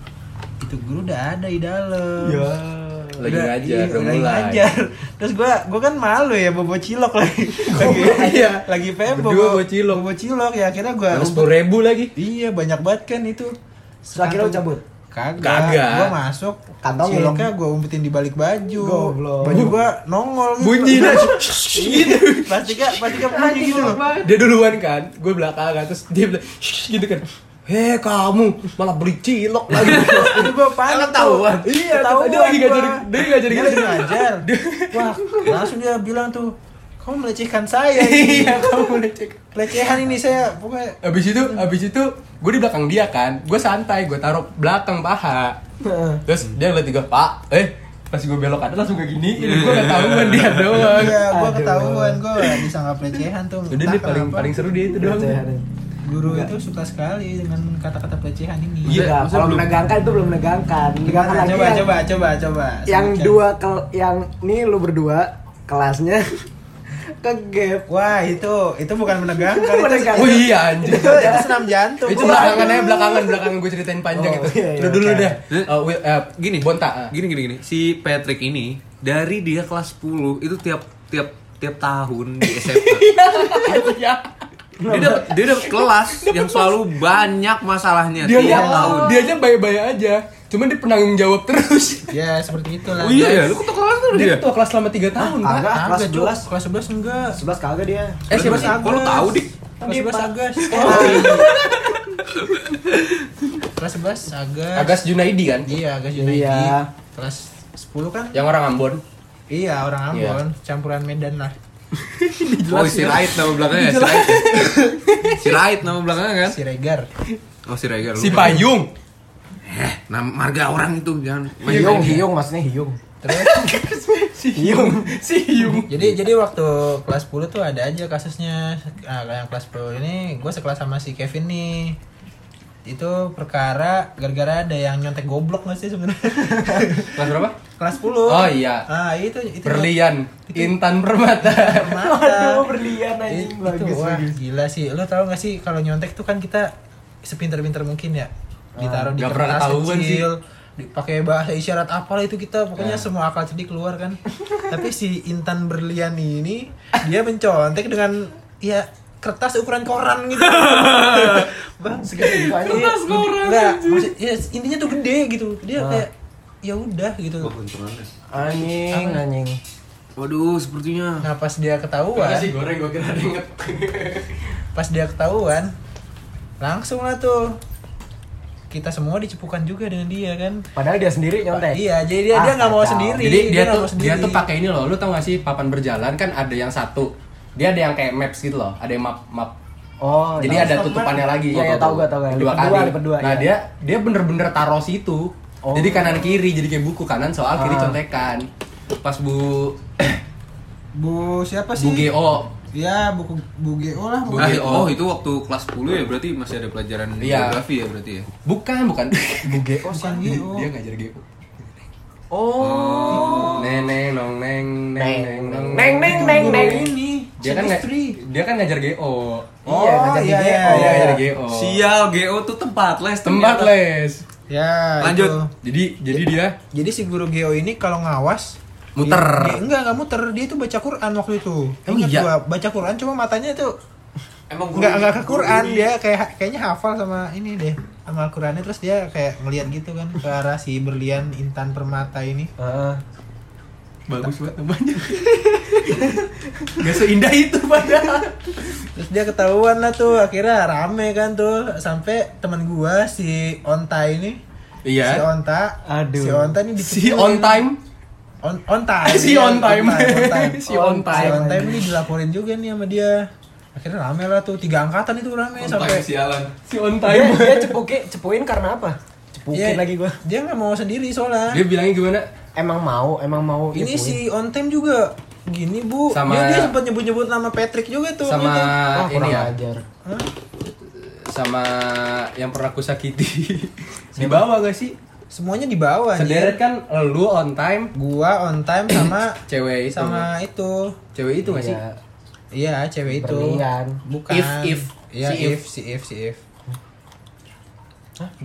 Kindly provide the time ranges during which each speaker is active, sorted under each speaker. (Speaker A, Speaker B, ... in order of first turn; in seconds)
Speaker A: 0.6-2.5, 3.2-11.5, 12.2-24.0, 29.8-38.9, 39.5-41.0, 50.8-54.5, 56.0-59.0, 61.0-63.4, 67.9-73.0, 88.4-89.0, 92.1-93.6, 95.6-97.4, 98.3-101.5, 103.8-105.0, 105.6-108.4, 109.5-111.5, 116.4-117.1, 123.2-123.7, 125.9-132.0, 132.8-137.2, 137.8-139.9, 140.5-140.8, 141.4-142.7, 143.3-146.7, 147.2-166.1, 166.6-167.5, 168.9-169.2, 171.2-172.5, 174.8-175.7, 176.6-177.6, 178.7-180.6, 181.5-184.4, 190.6-190.9, 200.9-202.1, 202.7-204.7, 209.8-210.7, 216.0-218.2, 219.7-221.2, 224.5-225.5, 226.7-233.7, 234.7-242.5, 248.9-254.4, 255.0-257.6, 258.4-263.2, 263.8-266.1, 269.5-271.6, 273.7-278.8, 285.3-286.6, 287.9-289.4, 289.9-291.0, 292.5-296.4
Speaker B: 2.2-4.6, 7.7-10.0, 11.1-12.1, 15.4-16.1, 19.4-19.8, 20.6-23.1, 23.8-35.6, 37.9-39.5, 41.0-45.6, 46.2-51.2, 53.7-55.4, 70.1-71.4, 72.0-77.1, 82.6-84.2, 85.6-86.8, 88.2-92.1, 94.1-95.7, 98.3-98.8, 100.7-101.5, 104.8-105.7, 108.3-109.0, 110.1-110.4, 112.0-115.6, 118.2-118.9, 121.7-122.2, 123.3-126.0, 137.1-137.6, 138.2-138.9, 139.6-142.1, 149.2-150.2, 172.1-174.4, 183.2-189.5, 190.4-198.5, 199.0-200.2, 201.8-202.5, 204.3-205.0, 207.2-207.6, 208.4-209.7, 210.2-211.7, 213.5-216.8, 217.4-219.6, 220.6-221.8, 223.2-224.2, 225.6-226.6, 228.9-229.6, 231.9-232.3, 244.1-248.6, 254.8-255.2, 256.8-257.8, 259.0-261.5, 266.6-267.8, 271.5-272.2, 276.1-276.7, 278.2-279.5, 281.0-284.9, 286.2-287.9, 289.5-290.3, 291.1-291.8, 294.3-295.6
Speaker C: 14.1-14.8, 16.8-17.5, 18.8-19.7, 21.8-22.1, 23.2-24.4, 45.8-46.2, 51.3-52.2, 54.9-55.6, 56.2-56.5, 58.9-61.9, 62.9-66.5, 67.2-67.9, 69.4-73.3, 74.1-75.4, 84.8-85.3, 88.4-89.3, 95.2-96.5, 97.3-98.3, 99.8-101.5, 106.1-106.9, 121.7-123.0, 124.5-125.1, 142.0-144.3, 148.8-149.1, 162.1-163.0, 165.8-166.0, 168.3-169.6, 180.8-183.2, 190.0-193.5, 195.6-196.3, 197.6-198.0, 209.4-210.3, 212.3-213.6, 214.9-216.9, 219.7-221.2, 242.6-243.0, 255.9-256.6, 260.7-261.8, 267.1-270.2, 272.6-274.2, 278.9-279.8, 291.4-291.9, 293.1-294.0
Speaker D: 49.4-50.9, 58.9-59.7, 76.4-83.1, 83.7-83.9, 84.9-89.1, 93.0-94.4, 98.3-99.5, 100.8-103.1, 112.6-114.8, 115.3-116.6, 117.6-118.7, 119.6-122.3, 160.4-161.5, 162.2-164.1, 167.4-168.1, 170.2-171.3, 204.4-208.3, 212.6-213.9, 221.5-223.8, 225.0-225.4, 234.5-235.9, 265.6-266.5